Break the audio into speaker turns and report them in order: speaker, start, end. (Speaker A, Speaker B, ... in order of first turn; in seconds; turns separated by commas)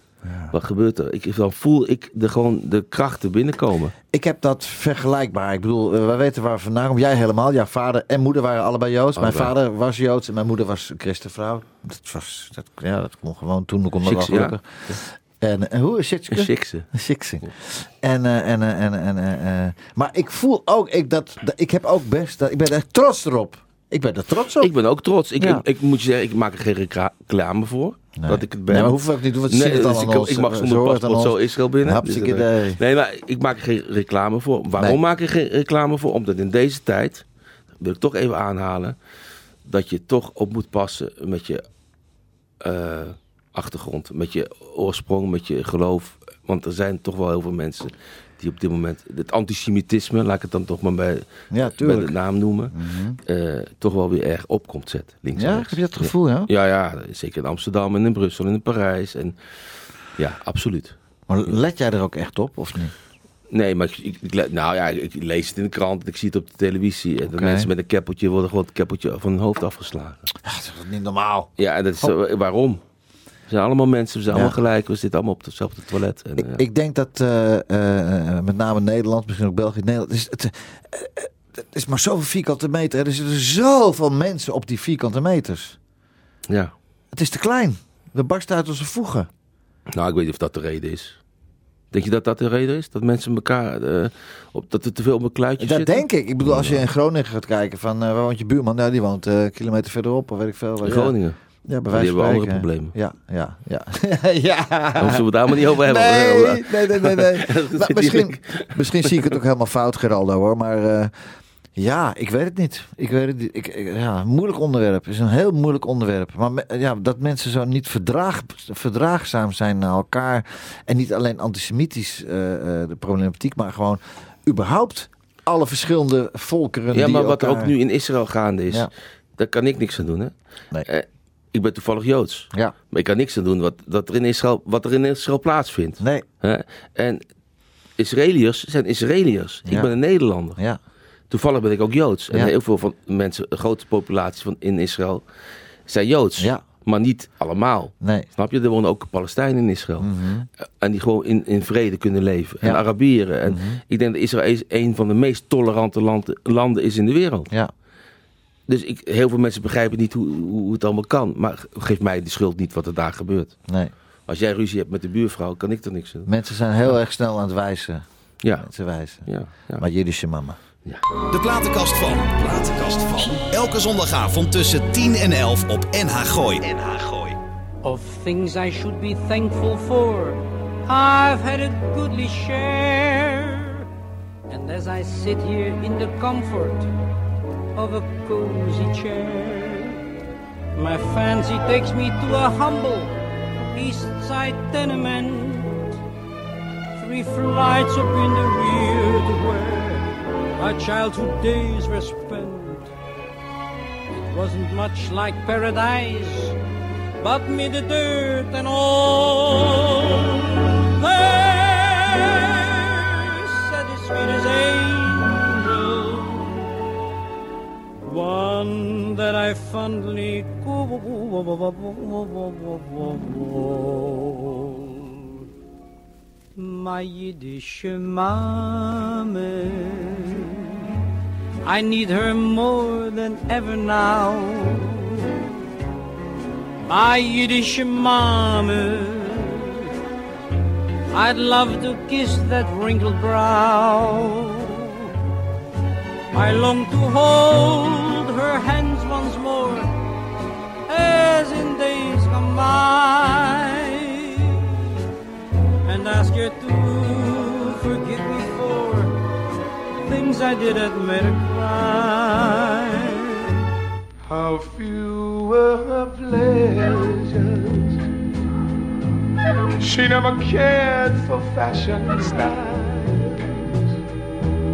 Speaker A: 0.2-0.5, Speaker B: 0.5-3.9, Speaker A: 4.1-24.7, Speaker B: 9.2-9.5, Speaker B: 14.0-15.0, Speaker B: 16.3-16.9, Speaker B: 24.6-37.2, Speaker A: 25.4-25.6, Speaker A: 28.1-32.8, Speaker B: 37.8-39.0, Speaker B: 39.6-41.6, Speaker B: 42.6-59.4, Speaker A: 51.5-52.1, Speaker A: 52.7-53.2, Speaker A: 55.4-56.5, Speaker B: 60.2-60.9, Speaker A: 61.3-62.9, Speaker B: 63.5-70.3, Speaker A: 67.3-67.7, Speaker A: 70.4-72.1, Speaker B: 71.6-72.8, Speaker B: 73.5-76.6, Speaker A: 76.4-85.8, Speaker A: 87.1-89.3, Speaker B: 89.9-91.2, Speaker B: 91.9-96.8, Speaker A: 95.6-101.1, Speaker B: 100.8-101.4, Speaker A: 101.6-111.1, Speaker B: 101.9-102.9, Speaker B: 105.0-109.3, Speaker A: 111.8-127.7, Speaker B: 126.9-130.3, Speaker B: 130.8-137.2, Speaker A: 136.0-136.2, Speaker B: 138.0-140.6, Speaker A: 139.7-139.9, Speaker B: 141.3-145.2, Speaker B: 145.9-150.1, Speaker A: 146.4-146.6, Speaker A: 148.0-148.3, Speaker A: 150.0-150.5, Speaker B: 150.8-157.5, Speaker A: 153.4-153.8, Speaker B: 158.7-163.5, Speaker A: 163.7-163.9, Speaker B: 164.3-166.3, Speaker A: 166.2-168.0, Speaker B: 168.4-168.7, Speaker A: 168.6-170.6, Speaker B: 169.2-169.8, Speaker C: 171.3-177.4, Speaker D: 177.8-183.8, Speaker D: 184.5-186.9, Speaker D: 187.8-190.0, Speaker D: 190.7-193.2, Speaker D: 193.7-195.8, Speaker D: 197.0-202.9, Speaker D: 204.1-206.6, Speaker D: 207.2-216.6, Speaker D: 218.0-225.1, Speaker D: 226.6-230.7, Speaker D: 231.6-235.3, Speaker D: 236.8-239.9, Speaker D: 241.1-245.1, Speaker D: 246.3-249.9, Speaker D: 250.9-254.7, Speaker D: 255.8-259.1, Speaker D: 260.0-263.5, Speaker E: 264.2-268.0, Speaker E: 269.8-273.8